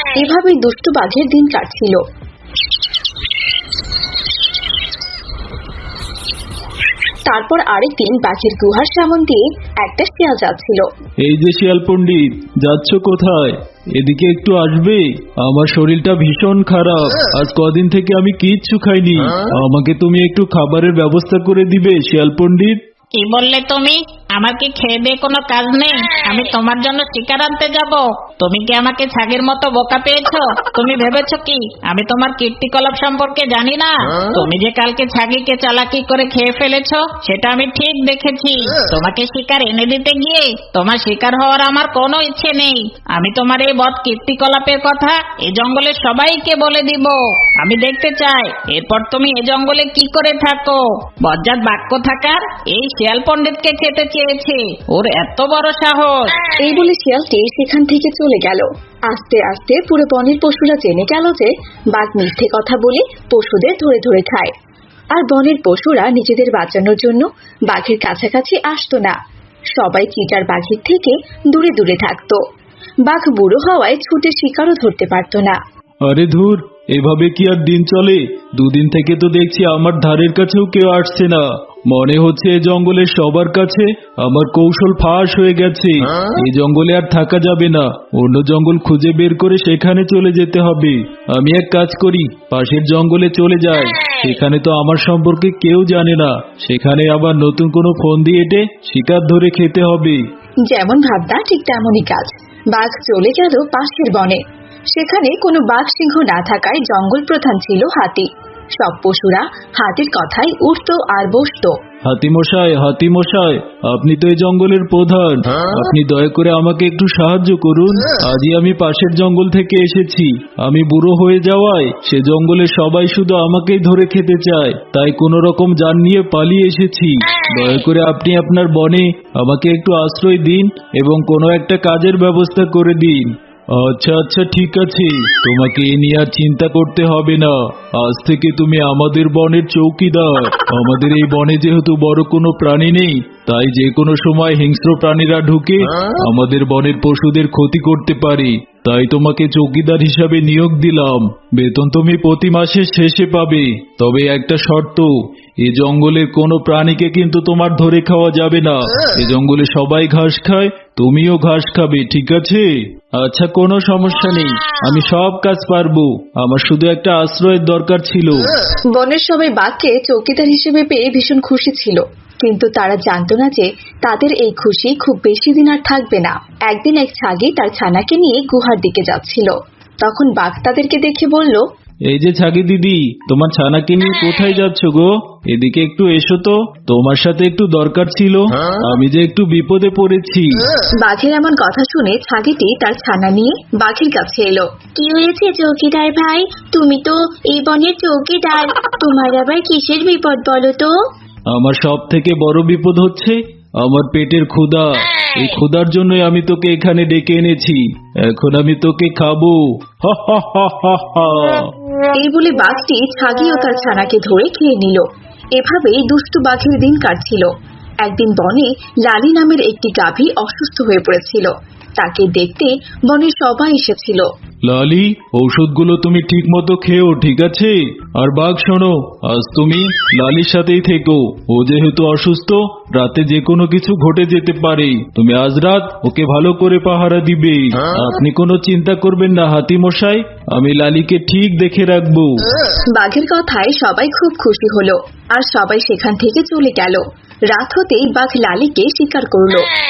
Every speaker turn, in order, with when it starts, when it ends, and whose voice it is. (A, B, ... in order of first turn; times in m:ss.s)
0:00.1-0:02.0 A
0:07.2-0:10.9 A
0:11.2-0:22.8 B
0:23.2-0:56.2 C
0:56.6-1:04.5 A
1:05.1-1:09.1 A
1:09.8-1:12.4 A
1:13.1-1:15.6 A
1:16.0-1:40.2 B
1:40.7-1:44.4 A
1:44.9-1:51.7 A
1:52.1-2:35.1 B
2:35.6-2:48.4 B
2:48.9-3:01.6 A
3:02.1-3:10.6 B
3:11.0-3:20.9 A
3:21.5-3:31.7 B
3:32.2-3:37.5 A
3:38.0-3:44.2 A
3:44.6-4:02.3 B
4:02.9-4:09.7 A